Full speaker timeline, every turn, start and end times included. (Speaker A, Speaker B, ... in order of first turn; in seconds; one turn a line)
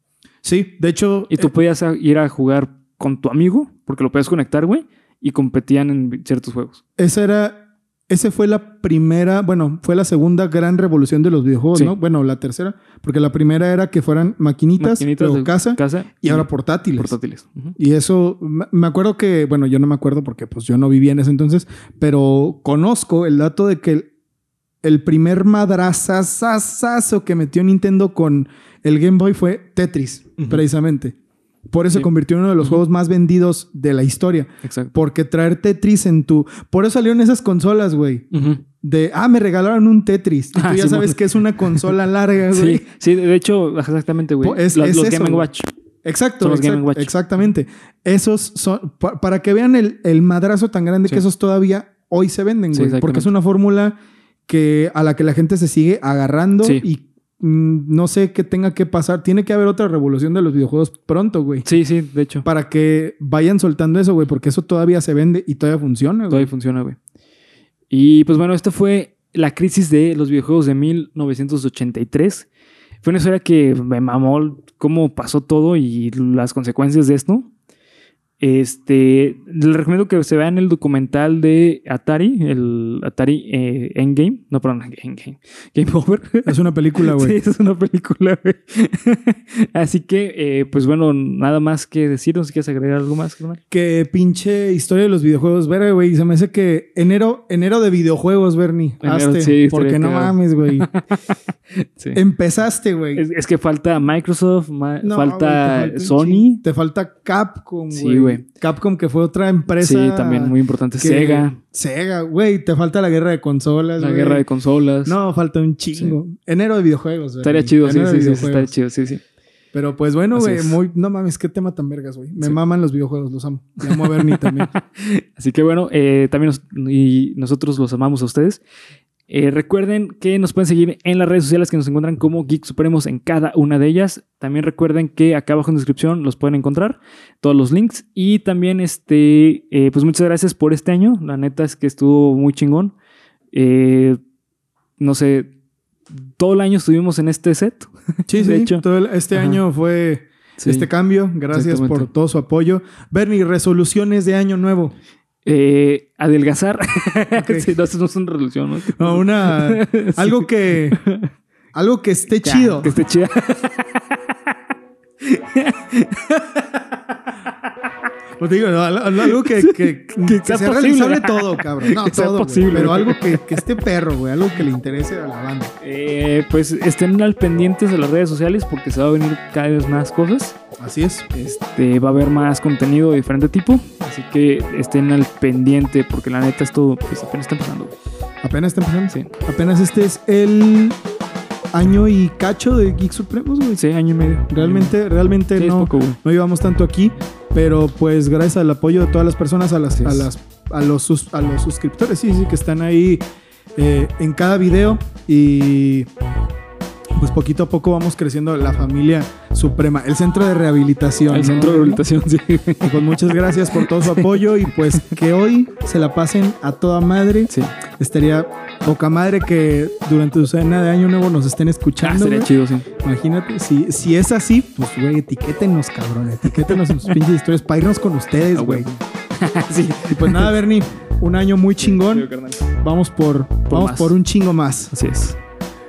Speaker A: 0.4-1.5
Speaker B: 1.3-6.8
Speaker A: 7.0-17.1
Speaker B: 14.8-17.8
Speaker A: 17.8-24.1
Speaker A: 24.8-31.2
Speaker B: 30.4-30.6
Speaker A: 31.7-38.3
Speaker B: 34.6-34.9
Speaker B: 38.3-38.6
Speaker A: 38.8-42.9
Speaker B: 40.5-41.9
Speaker B: 42.5-45.7
Speaker A: 44.4-45.5
Speaker A: 46.0-54.0
Speaker B: 46.4-47.1
Speaker B: 52.7-53.3
Speaker A: 54.5-61.7
Speaker B: 61.6-62.5
Speaker A: 62.5-66.5
Speaker B: 66.3-67.0
Speaker B: 67.9-72.5
Speaker B: 73.0-77.5
Speaker B: 78.4-93.6
Speaker A: 86.5-87.4
Speaker A: 93.7-100.9
Speaker B: 99.0-102.2
Speaker A: 102.1-103.2
Speaker B: 103.2-106.6
Speaker A: 105.0-114.5
Speaker B: 107.9-108.4
Speaker B: 109.8-111.6
Speaker B: 114.0-115.2
Speaker A: 115.0-118.7
Speaker B: 117.4-119.2
Speaker A: 119.7-124.7
Speaker B: 120.3-120.8
Speaker B: 123.8-128.6
Speaker B: 129.3-142.9
Speaker B: 143.5-144.2
Speaker B: 145.0-145.5
Speaker B: 146.1-149.6
Speaker A: 148.3-154.9
Speaker B: 150.6-150.9
Speaker B: 151.5-152.1
Speaker B: 155.4-161.3
Speaker A: 157.3-157.7
Speaker A: 159.0-161.0
Speaker A: 161.7-163.0
Speaker B: 162.4-164.6
Speaker B: 165.2-167.2
Speaker A: 168.4-175.7
Speaker B: 169.2-173.7
Speaker B: 175.8-180.6
Speaker A: 180.8-181.3
Speaker B: 181.3-187.9
Speaker A: 188.4-191.0
Speaker A: 191.7-193.8
Speaker B: 193.8-194.9
Speaker A: 194.5-203.2
Speaker B: 195.6-196.2
Speaker B: 200.0-200.3
Speaker A: 203.8-206.1
Speaker A: 207.2-212.0
Speaker B: 211.3-213.0
Speaker A: 212.8-228.9
Speaker B: 213.8-215.2
Speaker B: 217.5-217.7
Speaker B: 222.0-222.9
Speaker B: 226.7-227.2
Speaker B: 228.5-230.5
Speaker A: 230.1-232.3
Speaker B: 231.8-232.7
Speaker A: 232.8-234.9
Speaker B: 233.7-234.2
Speaker B: 234.9-235.4